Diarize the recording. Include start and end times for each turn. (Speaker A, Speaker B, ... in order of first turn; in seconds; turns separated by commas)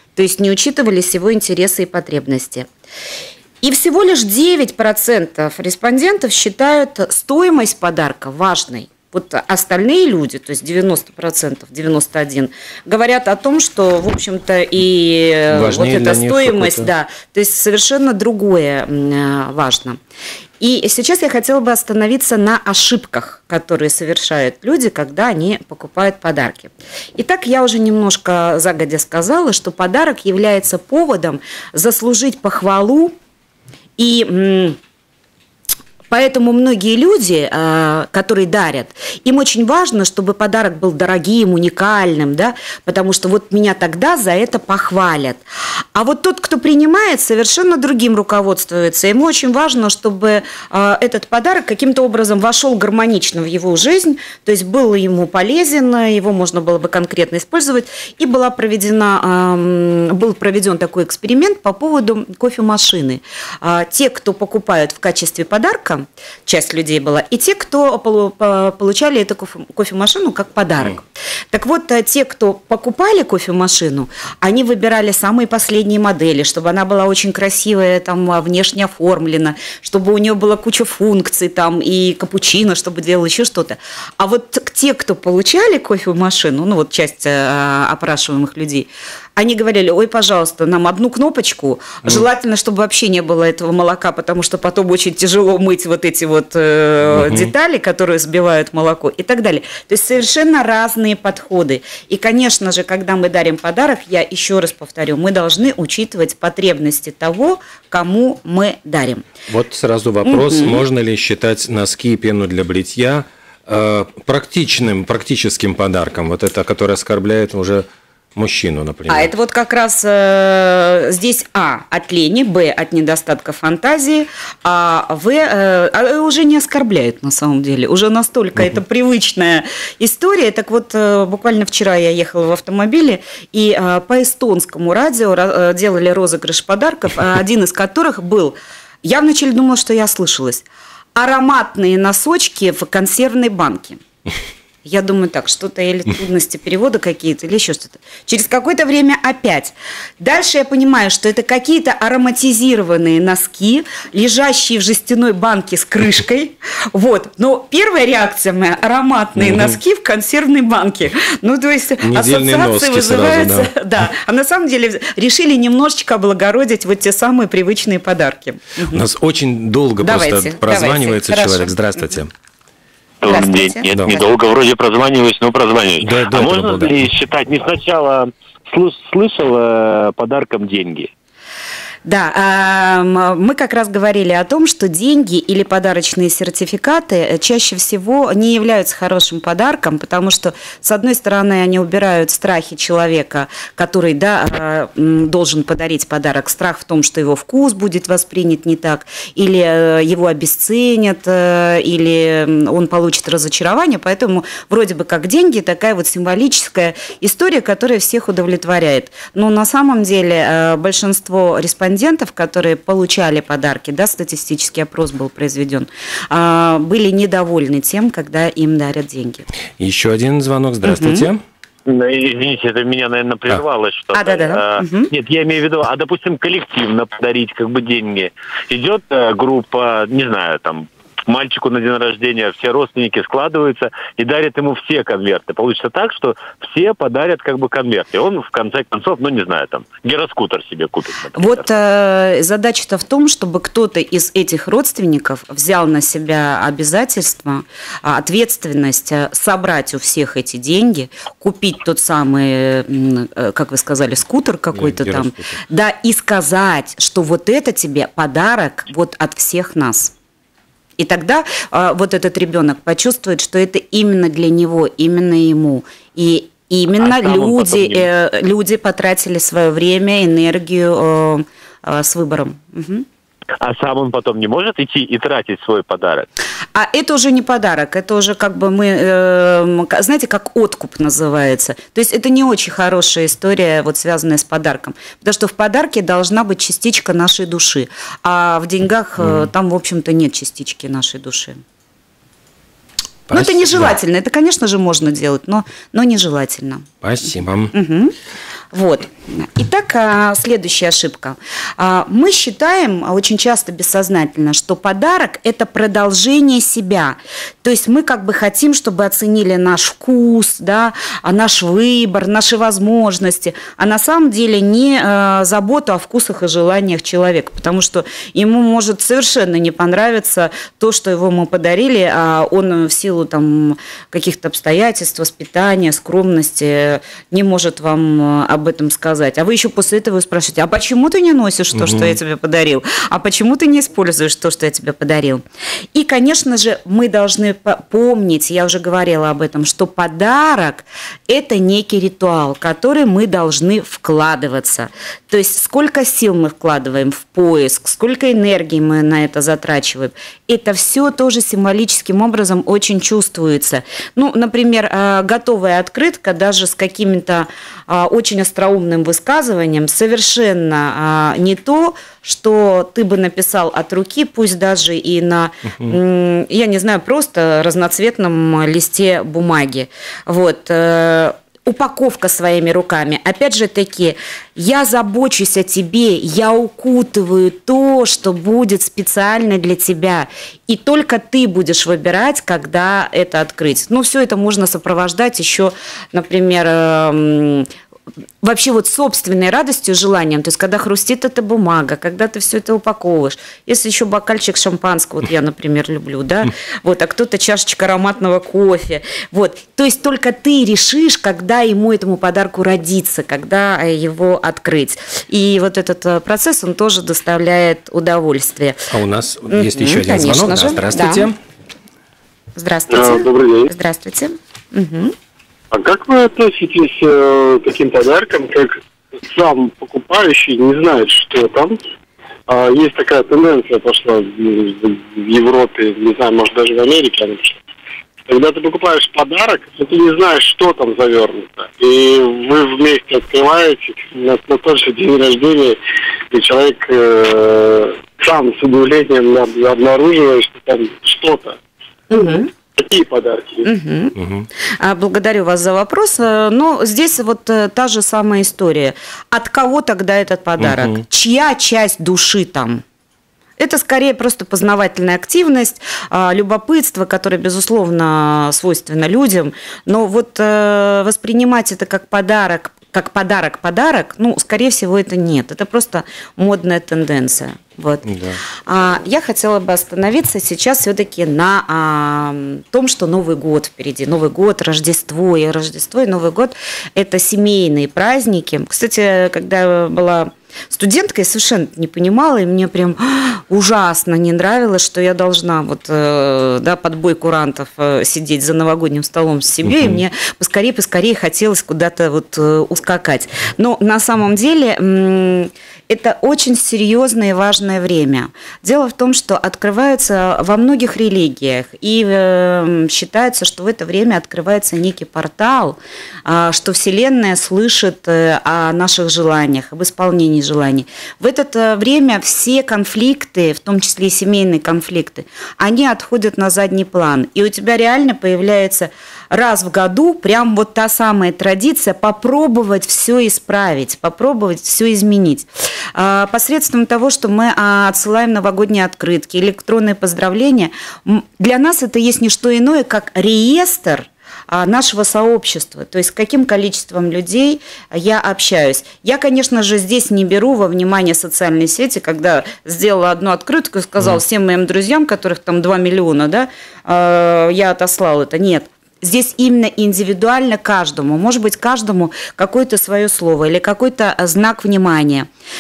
Speaker A: 0.1-2.7, Speaker A: 3.6-20.0, Speaker B: 15.5-16.9, Speaker A: 20.6-33.1, Speaker A: 34.0-34.8, Speaker A: 36.1-45.4, Speaker A: 45.9-109.2, Speaker B: 97.1-97.5, Speaker B: 109.5-117.8, Speaker A: 110.2-110.8, Speaker B: 118.3-119.3, Speaker A: 119.1-140.6, Speaker A: 141.2-144.0, Speaker A: 144.8-169.0, Speaker B: 159.4-159.7, Speaker B: 162.0-163.7, Speaker B: 168.9-172.3, Speaker A: 170.0-172.2, Speaker C: 173.2-181.1, Speaker A: 173.2-174.2, Speaker B: 173.9-174.2, Speaker B: 176.0-177.0, Speaker A: 182.0-219.5, Speaker B: 219.8-221.4, Speaker A: 220.8-221.3, Speaker C: 221.9-241.7, Speaker A: 224.1-225.1, Speaker A: 241.3-260.1, Speaker B: 254.7-255.6, Speaker A: 261.0-273.1, Speaker C: 267.0-268.1, Speaker C: 273.6-276.3, Speaker A: 276.7-291.6, Speaker B: 293.3-293.9, Speaker A: 293.3-296.9, Speaker B: 297.0-297.7, Speaker A: 297.7-298.1, Speaker A: 298.7-335.4, Speaker B: 331.7-332.1, Speaker A: 335.9-387.7, Speaker A: 388.4-408.9, Speaker B: 408.9-411.3, Speaker A: 409.5-411.3, Speaker A: 412.6-415.1, Speaker D: 412.9-413.7, Speaker D: 415.7-421.8, Speaker D: 422.5-427.6, Speaker D: 428.3-435.8, Speaker D: 436.3-441.6, Speaker A: 442.1-442.5, Speaker D: 442.7-443.7, Speaker A: 443.6-444.2, Speaker B: 444.2-444.5, Speaker A: 444.8-452.8, Speaker B: 450.6-451.0, Speaker A: 453.6-468.1, Speaker B: 468.1-468.4, Speaker A: 468.6-555.3, Speaker B: 489.7-489.9